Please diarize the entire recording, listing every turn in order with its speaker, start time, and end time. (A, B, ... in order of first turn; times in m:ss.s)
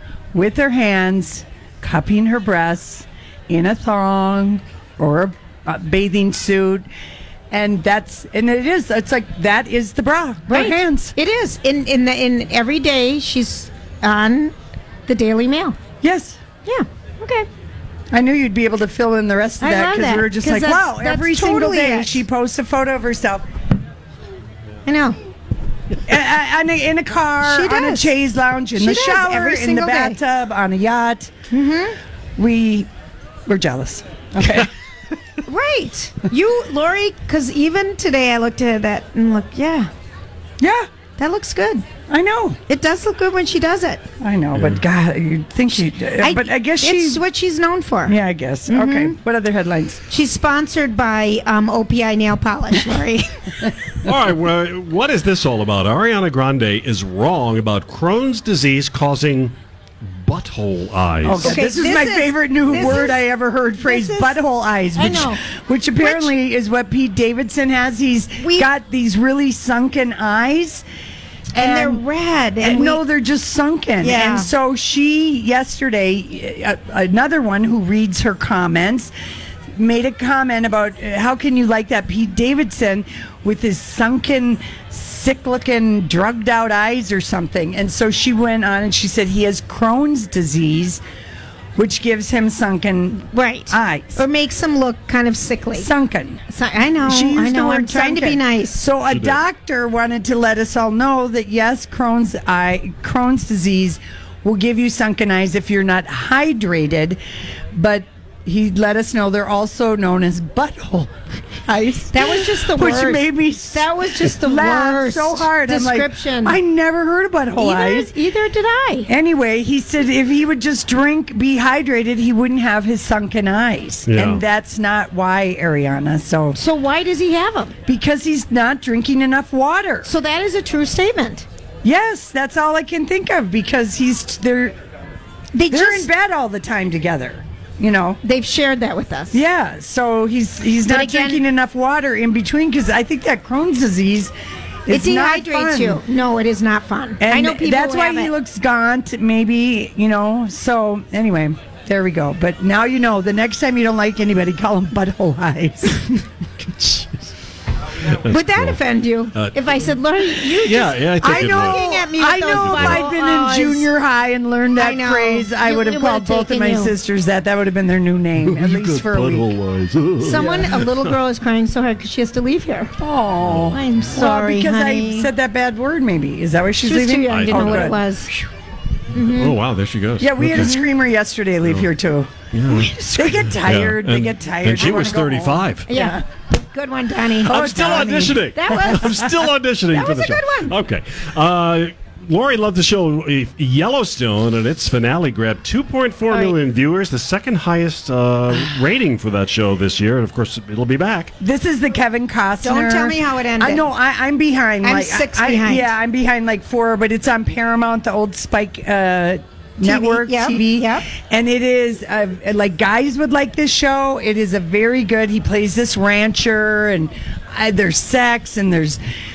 0:00.3-0:06.9 A
0:07.5-0:11.1 A
0:10.5-0:14.5 B
0:15.1-0:15.8 B
0:16.0-0:16.4 A
0:16.6-0:17.5 B
0:18.1-0:23.4 A
0:19.6-0:22.2 B
0:24.8-0:25.2 B
0:26.0-0:31.3 A
0:27.4-0:28.1 B
0:28.8-0:30.2 B
0:31.5-0:32.0 B
0:32.4-0:32.9 A
0:33.5-0:34.7 A
0:35.4-0:39.9 B
0:40.6-0:40.9 A
0:41.2-0:41.8 B
0:42.1-0:42.6 A
0:42.7-0:44.0 B
0:44.2-0:47.2 A
0:44.5-0:44.8 C
0:46.2-0:48.2 B
0:48.0-0:50.0 A
0:48.7-0:49.1 B
0:50.1-0:53.7 B
0:54.0-1:01.5 C
1:01.2-1:10.8 A
1:01.4-1:03.2 B
1:03.8-1:04.4 B
1:04.9-1:05.4 B
1:06.0-1:06.3 B
1:08.4-1:08.7 B
1:11.5-1:13.0 B
1:11.6-1:12.0 A
1:12.6-1:19.1 A
1:14.0-1:14.5 B
1:19.7-1:31.0 A
1:31.8-1:34.2 A
1:33.3-1:35.9 B
1:35.7-1:36.4 A
1:36.5-1:38.8 B
1:37.0-1:47.2 A
1:39.1-1:39.4 C
1:47.7-1:51.1 A
1:51.6-1:58.1 A
1:52.1-1:56.6 B
1:57.6-1:59.1 B
1:59.1-2:06.6 A
2:04.1-2:04.4 C
2:06.5-2:07.7 B
2:07.9-2:10.1 A
2:10.0-2:11.4 B
2:11.8-2:14.8 A
2:15.5-2:16.1 B
2:15.7-2:18.2 A
2:18.2-2:19.4 B
2:19.3-2:24.3 A
2:20.8-2:21.4 B
2:24.8-2:26.0 A
2:24.9-2:28.3 B
2:27.2-2:36.1 A
2:36.6-2:37.3 C
2:38.0-2:38.8 C
2:38.2-2:43.9 B
2:39.3-2:39.9 C
2:40.4-2:41.8 C
2:41.2-2:49.6 A
2:42.5-2:43.0 C
2:44.7-2:46.9 B
2:48.4-2:51.2 C
2:50.2-2:52.9 B
2:50.3-2:50.7 A
2:53.0-2:58.0 A
2:53.4-2:53.8 C
2:53.6-2:55.3 B
2:56.8-2:58.4 B
2:57.2-2:58.0 C
2:59.1-2:59.6 B
2:59.2-3:00.8 C
3:00.2-3:02.3 A
3:02.5-3:05.9 C
3:02.7-3:03.1 B
3:03.1-3:06.2 A
3:05.9-3:09.4 B
3:07.4-3:21.3 C
3:07.4-3:08.5 A
3:09.9-3:10.7 B
3:21.4-3:39.0 A
3:22.6-3:23.8 B
3:24.8-3:25.9 B
3:29.8-3:31.1 B